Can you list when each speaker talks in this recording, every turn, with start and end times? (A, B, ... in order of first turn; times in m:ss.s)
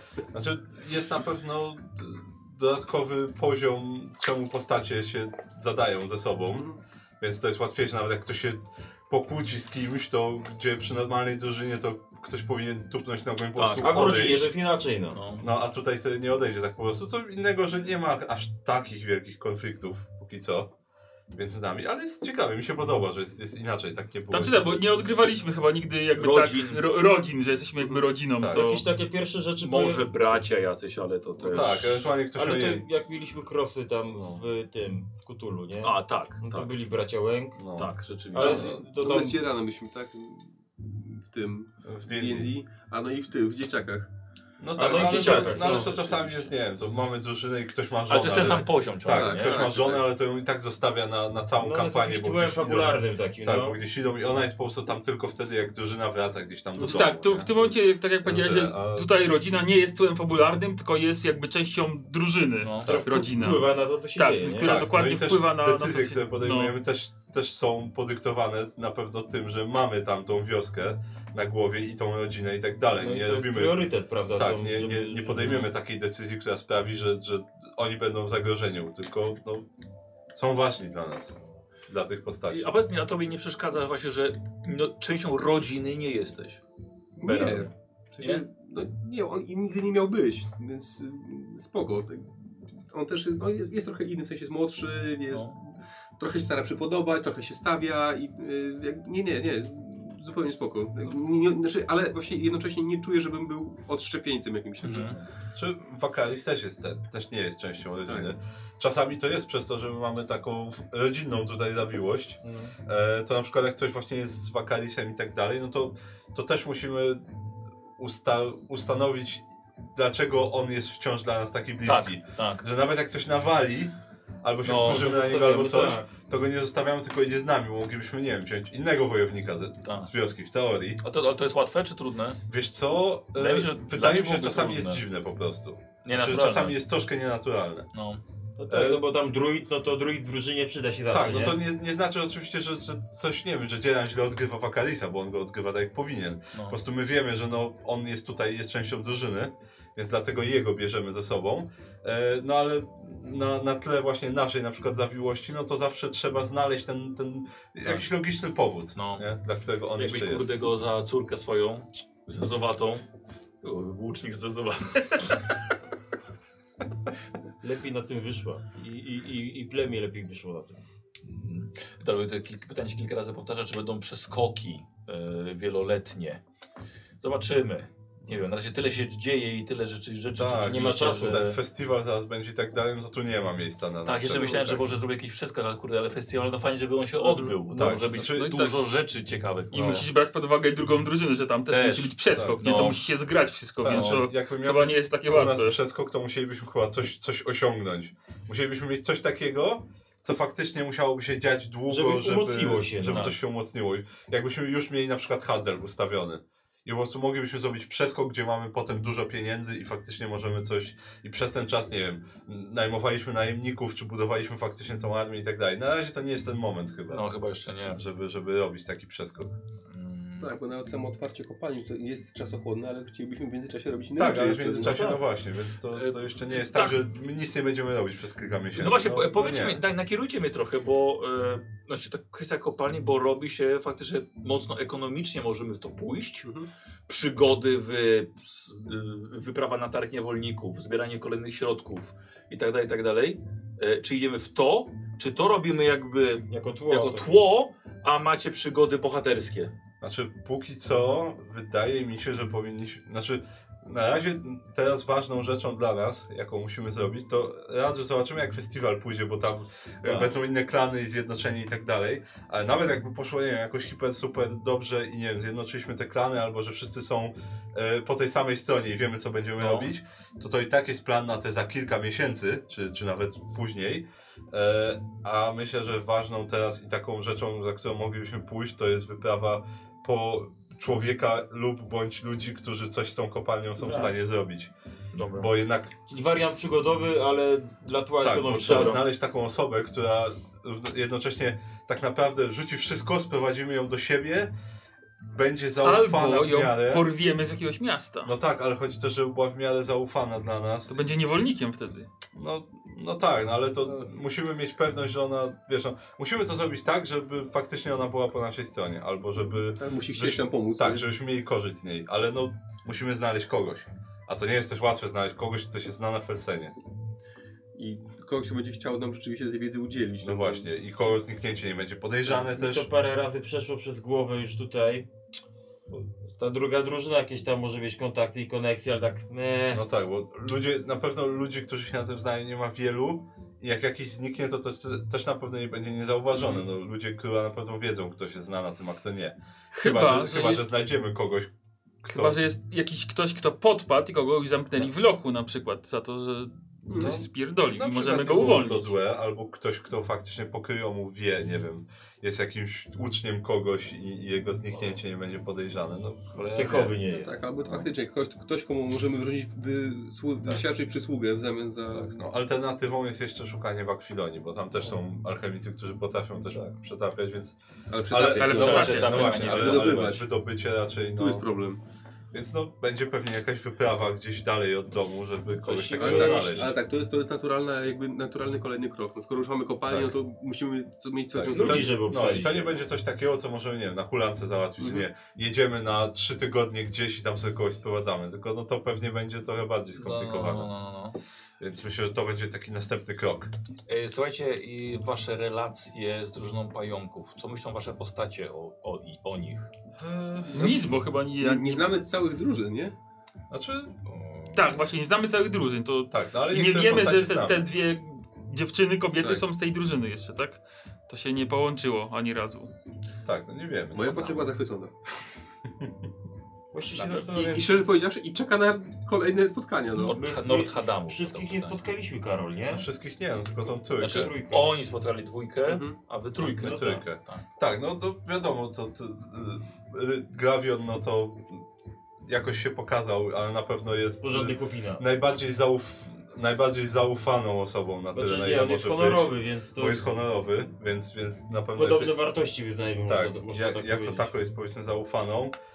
0:00.3-0:06.7 A
0:06.5-0:06.8 B
0:07.2-0:14.5 A
0:13.5-0:14.4 C
0:13.8-0:15.2 D
0:15.1-0:15.5 C
0:15.4-0:20.7 A
0:21.3-0:24.8 A
0:24.3-0:28.8 E
0:26.2-0:26.8 C
0:28.4-0:28.7 A
0:28.5-0:30.0 D
0:29.6-0:32.0 C
0:31.5-0:32.8 A
0:32.3-0:37.6 D
0:34.2-0:34.4 A
0:35.8-0:36.7 C
0:37.6-0:38.9 A
0:37.8-0:38.7 C
0:38.3-0:39.4 D
0:38.4-0:44.1 B
0:41.8-0:42.5 A
0:44.6-0:59.1 A
0:44.8-0:46.0 D
0:44.8-0:46.5 C
0:48.1-0:49.6 C
0:49.1-0:50.0 B
0:51.6-0:53.8 D
0:56.8-1:06.8 E
1:02.6-1:03.0 C
1:02.8-1:04.8 D
1:04.6-1:19.7 A
1:13.0-1:15.6 D
1:15.4-1:15.7 C
1:20.4-1:22.7 A
1:22.5-1:26.6 C
1:27.2-1:45.2 B
1:27.2-1:28.5 C
1:35.3-1:35.6 C
1:44.8-1:45.2 C
1:45.5-1:57.4 A
1:48.1-1:48.3 B
1:52.4-1:52.7 D
1:58.0-2:11.0 A
2:01.8-2:02.6 C
2:04.6-2:05.2 C
2:04.7-2:06.1 D
2:09.8-2:10.1 C
2:11.0-2:12.4 C
2:12.5-2:17.9 A
2:13.4-2:15.0 C
2:16.0-2:16.8 C
2:17.9-2:18.2 C
2:18.6-2:21.6 D
2:18.7-2:19.0 A
2:21.1-2:40.6 A
2:39.0-2:39.3 C
2:40.0-2:43.0 C
2:43.6-2:45.5 C
2:47.6-2:50.8 D
2:51.2-2:56.4 C
2:57.2-3:01.6 C
3:00.4-3:04.9 A
3:00.6-3:01.6 D
3:04.0-3:10.1 C
3:07.2-3:07.6 B
3:07.7-3:08.7 A
3:09.7-3:15.8 E
3:09.8-3:10.0 A
3:11.7-3:13.0 C
3:12.3-3:12.6 A
3:13.8-3:37.3 A
3:13.8-3:14.2 C
3:21.9-3:23.4 D
3:23.0-3:23.4 C
3:37.1-3:38.0 C
3:37.9-3:39.6 A
3:39.9-3:40.5 C
3:40.4-3:45.2 B
3:44.2-3:49.8 A
3:44.8-3:45.2 D
3:45.9-3:47.0 C
3:48.8-3:56.5 C
3:56.4-3:56.7 B
3:57.1-4:09.7 C
4:06.5-4:07.3 D
4:10.0-4:44.7 A
4:20.0-4:20.4 D
4:29.6-4:29.9 C
4:43.8-4:44.1 D
4:45.1-4:45.5 C
4:45.4-4:45.9 A
4:46.1-4:49.1 D
4:48.2-4:54.5 A
4:55.2-4:57.0 A
4:55.8-4:58.3 E
4:58.2-5:01.0 A
5:00.9-5:02.1 E
5:02.3-5:16.8 A
5:09.8-5:11.1 B
5:17.8-5:20.6 B
5:20.2-5:22.9 A
5:22.2-5:25.1 D
5:26.3-5:29.8 D
5:29.7-5:41.5 A
5:36.3-5:36.6 B
5:39.7-5:40.6 E
5:42.0-5:42.4 A
5:42.1-5:49.0 E
5:46.9-5:47.2 B
5:47.0-5:57.0 A
5:56.4-5:56.9 C
5:56.5-5:57.4 D
5:56.9-6:02.2 B
6:01.9-6:11.4 A
6:07.9-6:10.3 B
6:08.3-6:09.8 E
6:08.4-6:10.0 C
6:11.2-6:11.8 B
6:12.3-6:16.8 A
6:15.6-6:22.6 B
6:16.0-6:16.7 D
6:19.9-6:20.2 A
6:21.4-6:30.7 A
6:21.5-6:22.7 D
6:24.8-6:25.1 B
6:29.9-6:31.2 C
6:31.6-6:33.5 A
6:33.9-6:39.7 C
6:40.0-6:40.8 A
6:40.5-6:42.9 B
6:40.5-6:41.9 E
6:43.5-6:43.9 A
6:44.1-6:44.8 C
6:44.6-6:52.7 E
6:46.1-6:47.6 A
6:53.2-6:54.4 A
6:53.9-6:54.9 B
6:56.7-6:57.8 D
6:57.1-7:00.2 B
6:59.9-7:01.8 C
7:00.1-7:02.9 D
7:02.7-7:04.3 A
7:04.0-7:04.7 D
7:04.0-7:07.4 C
7:05.6-7:06.0 B
7:06.4-7:11.6 A
7:06.6-7:06.9 D
7:12.2-7:22.1 A
7:14.2-7:15.1 D
7:18.1-7:20.0 D
7:21.7-7:24.3 D
7:23.1-7:25.6 A